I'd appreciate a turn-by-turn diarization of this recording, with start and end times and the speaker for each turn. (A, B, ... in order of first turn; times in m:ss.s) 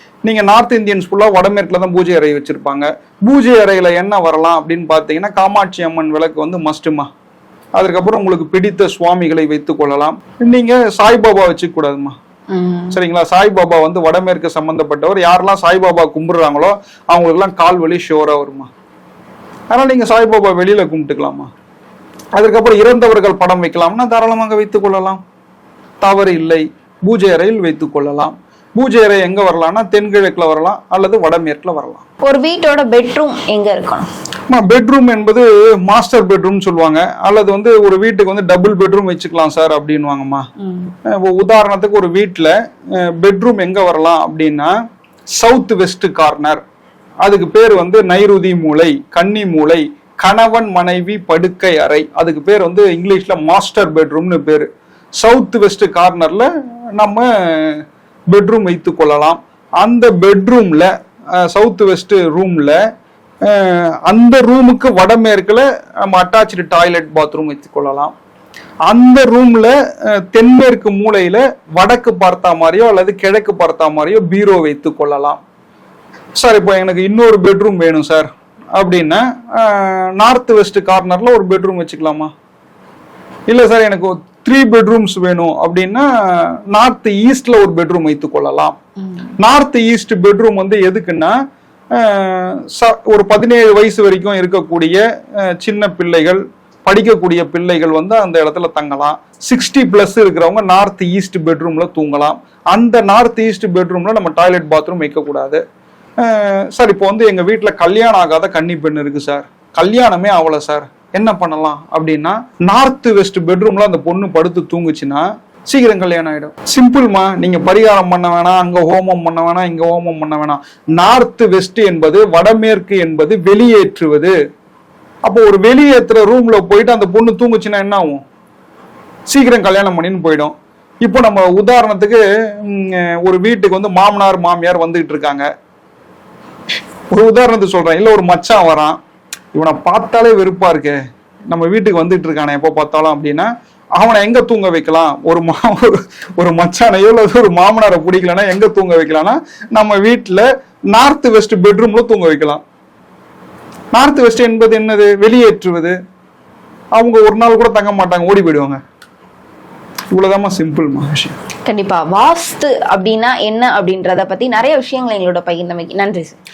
0:00.2-0:07.1 A
0:07.8-0:12.2 A
0:12.5-0:13.0 B
0:12.9-0:18.7 A
0:19.7-0:21.5 A
0:22.4-0:25.2 A
0:26.0-0:32.0 A
0:32.2-0:34.1 B
0:34.5-0:40.5 A
0:40.6-0:40.9 B
0:41.1-0:44.7 A
0:45.3-0:46.6 A
0:47.2-1:02.8 A
1:03.4-1:08.1 A
1:08.9-1:15.4 A
1:16.4-1:22.3 A
1:23.5-1:28.8 A
1:29.4-1:31.4 A
1:31.9-1:45.6 A
1:46.2-2:04.3 A
2:05.2-2:08.2 A
2:09.3-2:15.5 A
2:17.1-2:19.0 A
2:19.5-2:32.6 A
2:33.9-2:36.0 A
2:37.0-2:38.8 A
2:40.1-2:41.3 A
2:41.6-2:46.4 B